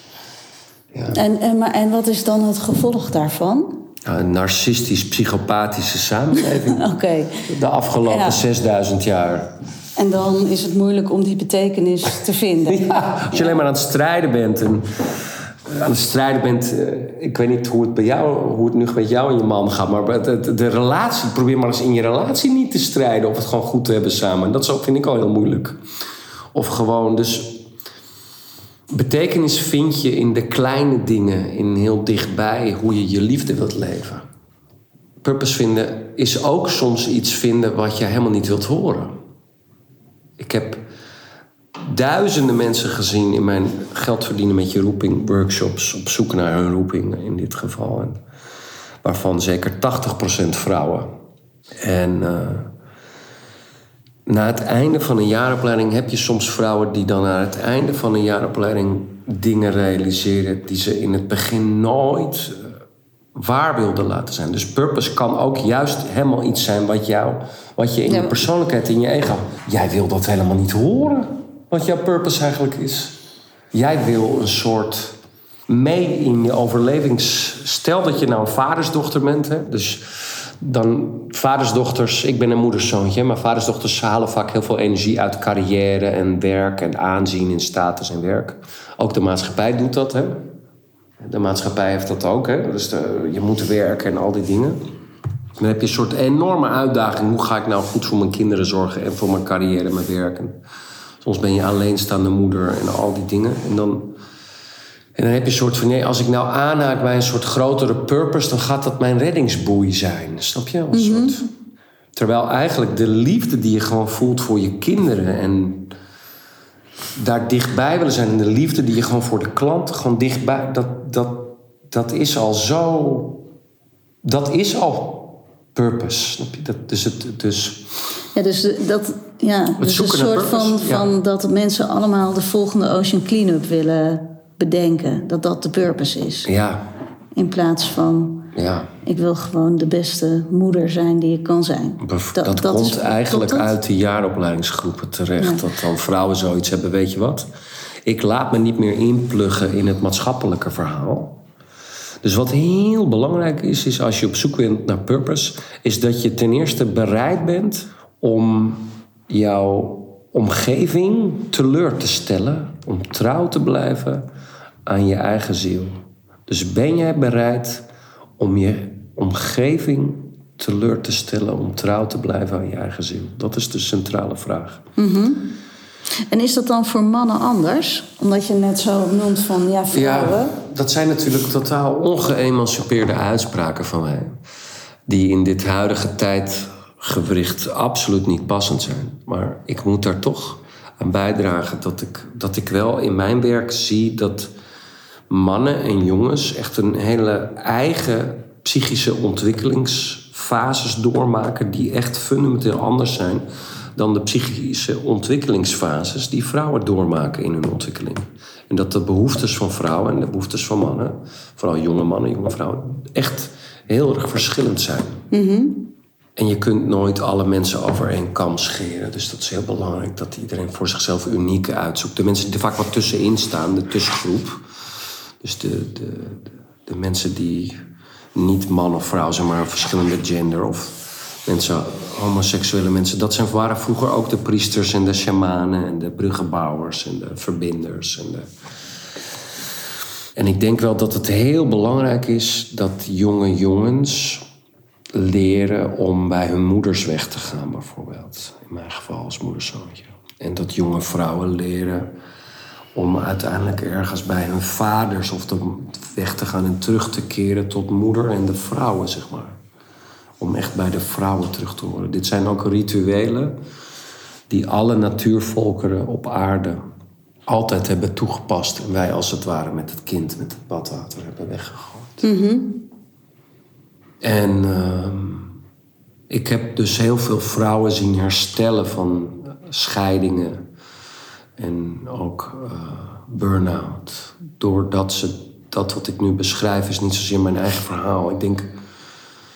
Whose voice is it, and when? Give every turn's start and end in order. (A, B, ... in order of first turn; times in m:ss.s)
0:00.9-0:01.2 A
0:01.1-0:03.8 B
0:04.0-0:06.9 A
0:06.4-0:07.5 B
0:07.5-0:09.5 A
0:08.0-0:08.4 B
0:10.0-0:13.5 B
0:12.6-0:14.9 A
0:15.6-0:25.8 A
0:26.5-0:27.6 A
0:28.9-0:34.2 A
0:35.2-0:39.1 A
0:40.4-0:40.8 A
0:41.8-0:48.2 A
0:49.0-0:51.1 A
0:51.8-0:52.7 A
0:54.3-1:02.7 A
1:03.3-1:13.2 A
1:08.1-1:08.4 B
1:13.7-1:15.2 A
1:15.7-1:30.4 A
1:31.2-1:34.8 A
1:35.6-1:40.6 A
1:41.2-1:44.1 A
1:45.1-1:51.4 A
1:50.9-1:51.4 B
1:52.1-1:55.9 A
1:57.2-2:03.4 A
2:04.2-2:07.9 A
2:08.3-2:16.5 B
2:09.8-2:11.1 A
2:16.4-2:16.8 A
2:17.4-2:18.5 B
2:18.5-2:18.9 A
2:19.0-2:23.7 B
2:22.0-2:27.5 A
2:28.0-2:31.4 A
2:32.2-2:44.2 A
2:44.9-2:45.9 A
2:46.5-2:47.8 A
2:48.4-2:54.8 A
2:55.0-2:55.5 B
2:56.3-3:00.6 B
2:59.9-3:04.4 A
3:05.1-3:14.5 A
3:15.3-3:35.2 A
3:35.3-3:35.9 B
3:36.4-3:44.6 A
3:45.4-3:47.8 A
3:48.3-3:58.5 A
4:00.4-4:04.4 A
4:05.1-4:12.1 A
4:12.9-4:19.6 A
4:20.4-4:23.5 A
4:24.5-4:26.8 A
4:27.5-4:32.2 A
4:32.2-4:32.8 B
4:34.2-4:35.5 A
4:36.3-4:40.6 A
4:41.6-4:48.7 A